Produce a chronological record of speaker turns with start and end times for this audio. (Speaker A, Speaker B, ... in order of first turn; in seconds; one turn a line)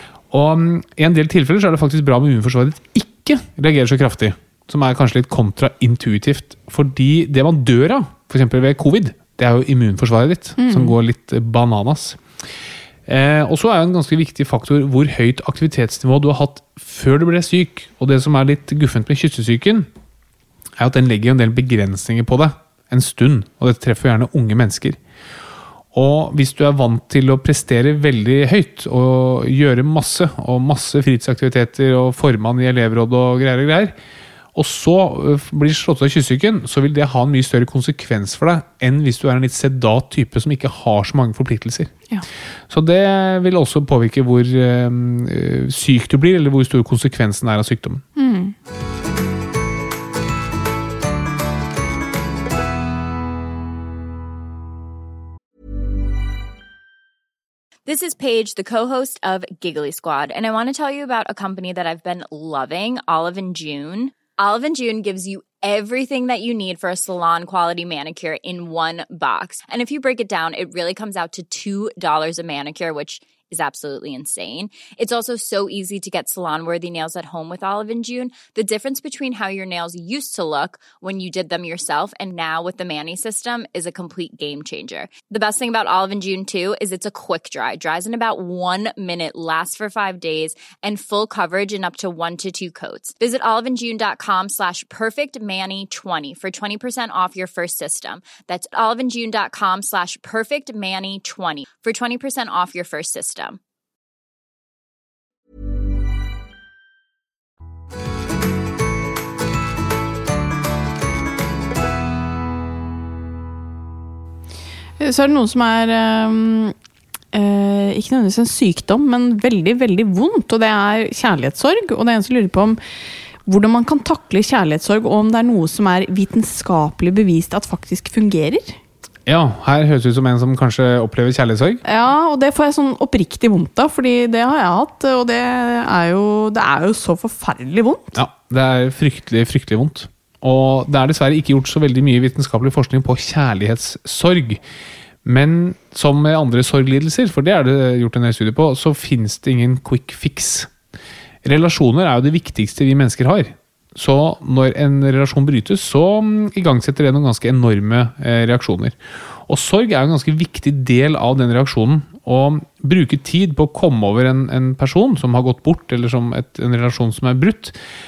Speaker A: 0.3-12.2
Speaker B: 10.6-10.9
Speaker A: 13.1-19.9
Speaker A: 20.8-25.0
Speaker A: 25.9-33.9
Speaker A: 34.5-41.9
Speaker A: 42.7-48.0
Speaker B: 48.1-48.5
Speaker C: 57.9-103.6
Speaker B: 115.0-116.7
Speaker B: 117.3-122.8
Speaker B: 123.5-128.8
Speaker A: 129.2-131.8
Speaker B: 131.8-138.2
Speaker A: 138.1-144.6
Speaker A: 145.2-150.7
Speaker A: 151.4-167.7